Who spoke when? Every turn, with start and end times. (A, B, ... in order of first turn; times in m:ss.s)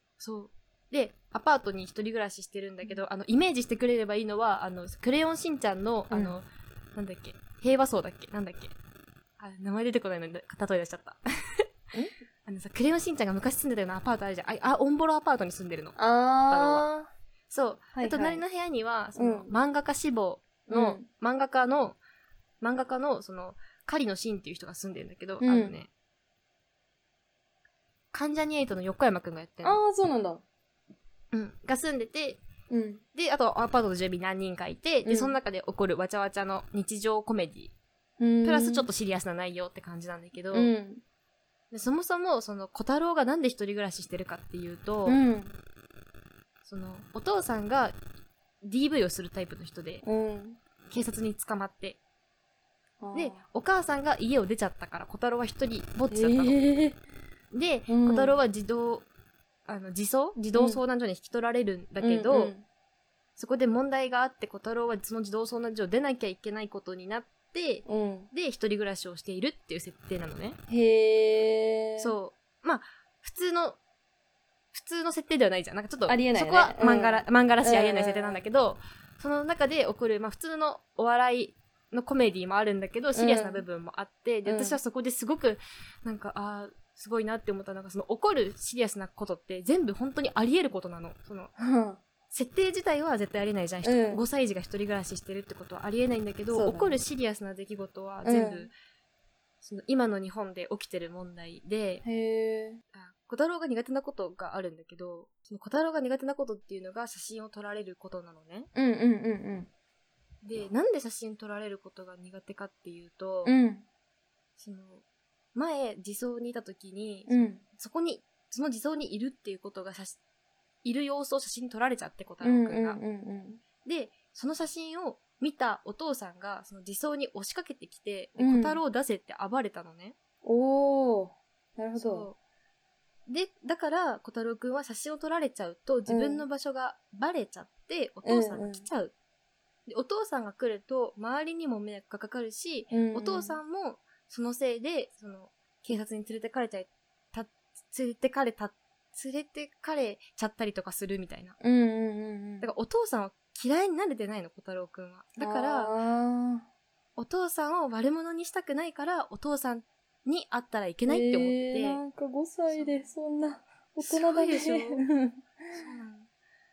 0:00.2-0:08.7 A
0:06.1-0:06.4 B
0:09.4-0:11.2 A
0:12.4-0:16.0 A
0:16.0-0:17.1 B
0:16.5-0:16.9 A
0:17.5-0:22.0 A
0:17.9-0:18.4 B
0:19.1-0:19.6 B
0:20.7-0:21.0 B
0:22.6-0:25.9 A
0:25.4-0:25.8 B
0:28.1-0:29.8 A
0:29.6-0:30.4 B
0:31.3-0:32.4 A
0:32.7-0:33.0 B
0:33.1-0:37.7 A
0:35.0-0:35.4 B
0:38.2-0:38.9 B
0:38.4-0:40.7 A
0:40.5-0:41.0 B
0:41.7-0:45.2 A
0:45.0-0:45.5 B
0:46.6-0:47.9 A
0:48.6-0:50.0 A
0:50.0-0:50.6 B
0:50.9-0:52.0 A
0:53.0-0:53.4 B
0:53.1-0:56.6 A
0:56.1-0:57.0 B
0:57.5-0:59.0 A
0:57.9-0:58.4 B
0:59.7-1:02.5 A
1:00.5-1:00.8 B
1:02.0-1:02.6 B
1:03.4-1:10.6 A
1:07.8-1:08.3 B
1:10.7-1:12.1 B
1:12.0-1:13.8 A
1:14.7-1:31.5 A
1:16.1-1:18.4 B
1:23.1-1:23.6 B
1:24.4-1:24.8 B
1:31.6-1:32.0 B
1:32.3-1:38.7 A
1:33.8-1:34.2 B
1:36.5-1:37.0 B
1:38.2-1:38.7 B
1:39.6-1:42.0 A
1:42.0-1:42.8 B
1:42.9-1:48.7 A
1:48.7-1:49.7 B
1:50.4-1:53.5 A
1:53.4-1:53.8 B
1:54.6-1:55.0 A
1:55.5-2:00.2 A
1:57.3-1:57.6 B
2:00.8-2:03.0 A
2:02.4-2:03.6 B
2:03.8-2:10.2 A
2:08.4-2:08.8 B
2:10.4-2:12.3 B
2:12.0-2:12.4 A
2:13.3-2:19.1 A
2:16.1-2:16.4 B
2:18.2-2:18.9 B
2:19.9-2:31.6 A
2:22.9-2:23.6 B
2:31.6-2:32.7 B
2:32.6-2:35.9 A
2:35.4-2:36.6 B
2:37.2-2:42.0 A
2:41.1-2:45.8 B
2:42.7-2:43.1 A
2:44.0-2:45.0 A
2:45.7-2:46.3 A